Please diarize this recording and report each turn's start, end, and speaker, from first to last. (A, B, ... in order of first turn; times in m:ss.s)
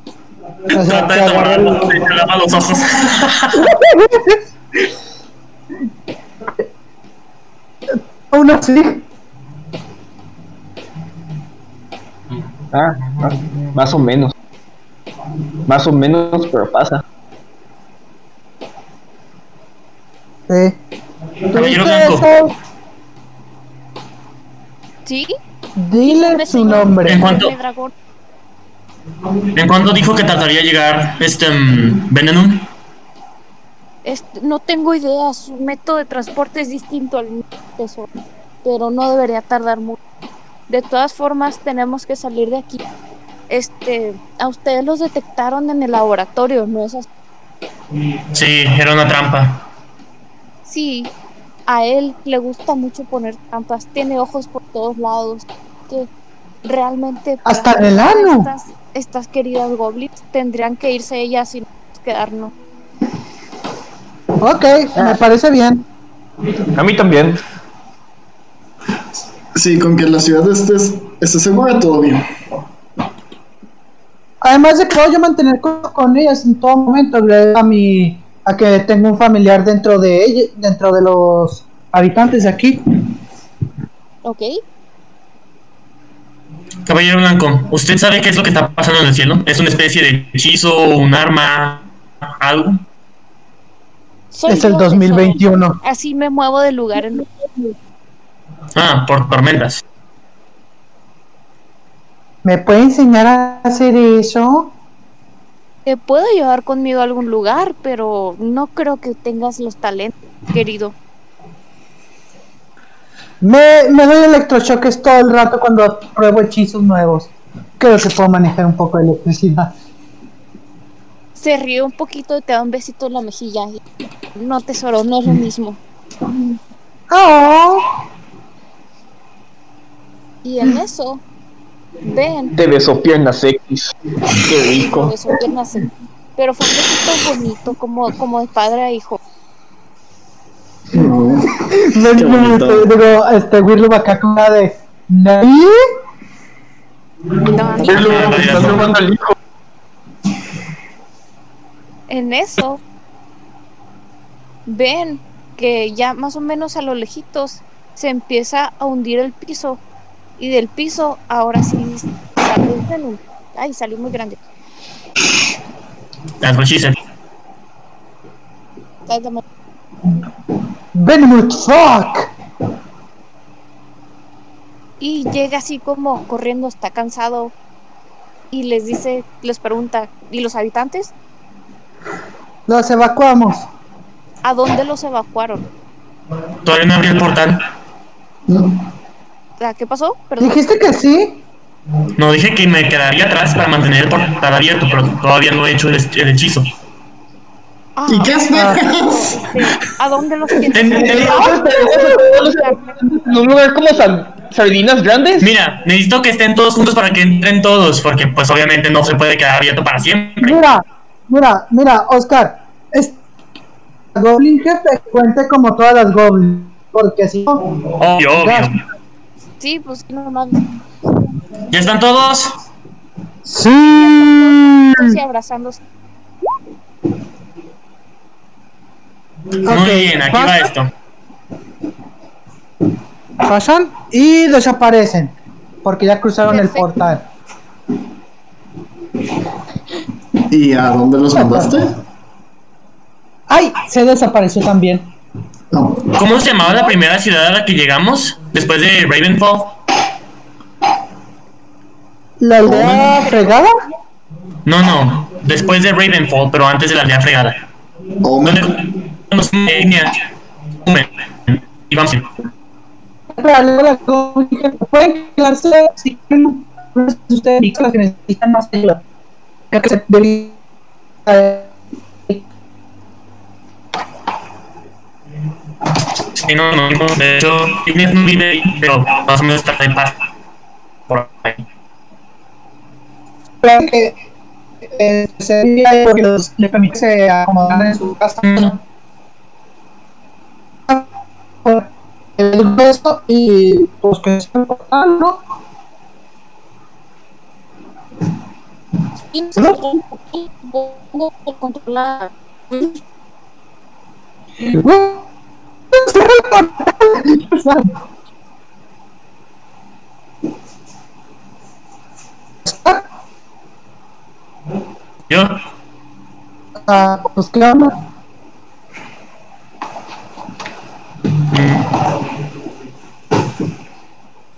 0:00.7-0:01.9 A
0:00.7-0:03.7 B
0:03.5-0:04.4 A
0:08.3-0:09.0 A
0:12.7-0:14.3 C
0:15.6-0:17.0 C
0:20.5-0:20.8 A
0:21.5-0:22.3 B
0:21.5-0:22.5 A
0:25.0-0:25.3 D
0:25.8-0:27.2 A
0:26.0-0:27.9 D
0:27.0-0:27.5 B
0:29.5-0:32.7 B
0:34.0-0:38.1 D
0:38.6-0:40.0 D
0:40.7-0:42.8 D
0:43.5-0:47.1 D
0:48.3-0:49.6 B
0:50.6-0:51.1 D
0:51.7-0:56.1 D
0:56.6-1:02.5 D
0:57.4-0:58.5 A
1:04.4-1:05.8 A
1:06.7-1:07.4 C
1:09.5-1:12.3 E
1:14.4-1:22.8 A
1:24.2-1:24.6 D
1:26.8-1:31.8 B
1:32.4-1:32.8 B
1:34.3-1:37.2 D
1:34.5-1:35.8 A
1:38.7-1:39.8 B
1:42.4-1:44.7 A
1:45.8-1:51.0 D
1:53.4-1:59.7 A
2:01.4-2:03.8 D
2:04.3-2:05.8 D
2:07.1-2:07.9 A
2:10.4-2:11.2 D
2:12.0-2:12.6 D
2:12.5-2:15.1 C
2:14.6-2:19.2 D
2:20.9-2:22.9 E
2:21.8-2:25.8 A
2:27.4-2:28.3 D
2:27.8-2:29.3 C
2:27.8-2:28.9 B
2:32.1-2:32.8 D
2:34.6-2:39.8 D
2:40.4-2:44.4 D
2:46.4-2:47.0 B
2:49.1-2:49.4 D
2:50.9-2:52.3 A
2:55.0-2:57.5 D
2:58.5-3:01.1 D
3:02.7-3:03.7 A
3:04.4-3:05.6 D
3:06.6-3:07.6 B
3:08.5-3:08.8 E
3:09.6-3:10.6 D
3:10.4-3:11.4 A
3:12.2-3:16.7 B
3:18.0-3:23.0 D
3:18.1-3:19.5 E
3:18.5-3:18.8 A
3:20.7-3:21.5 B
3:20.9-3:25.5 C
3:25.4-3:30.6 B
3:30.4-3:33.2 A
3:34.1-3:37.6 A
3:38.0-3:38.8 B
3:38.4-3:38.7 A
3:39.6-3:40.6 D
3:41.7-3:42.5 B
3:43.4-3:45.2 A
3:43.7-3:45.8 D
3:49.7-3:50.7 A
3:49.7-3:50.9 B
3:53.4-3:57.2 A
3:56.5-3:57.1 D
4:00.5-4:02.0 E
4:01.4-4:01.7 A
4:03.5-4:05.1 A
4:05.7-4:06.1 E
4:06.1-4:09.7 B
4:12.4-4:13.8 A
4:12.6-4:13.1 E
4:13.2-4:13.5 D
4:14.6-4:17.6 B
4:18.2-4:18.6 E
4:18.4-4:20.2 B
4:20.8-4:22.5 B
4:23.3-4:29.0 A
4:29.7-4:30.6 A
4:31.2-4:31.7 A
4:36.3-4:40.2 B
4:41.1-4:41.6 B
4:43.6-4:44.1 A
4:44.9-4:48.8 A
4:48.4-4:48.7 B
4:51.6-4:55.4 A
4:59.3-5:03.0 D
5:04.6-5:05.2 A
5:05.9-5:07.9 A
5:12.6-5:13.0 A
5:15.3-5:15.6 B
5:16.8-5:17.9 A
5:21.5-5:21.9 B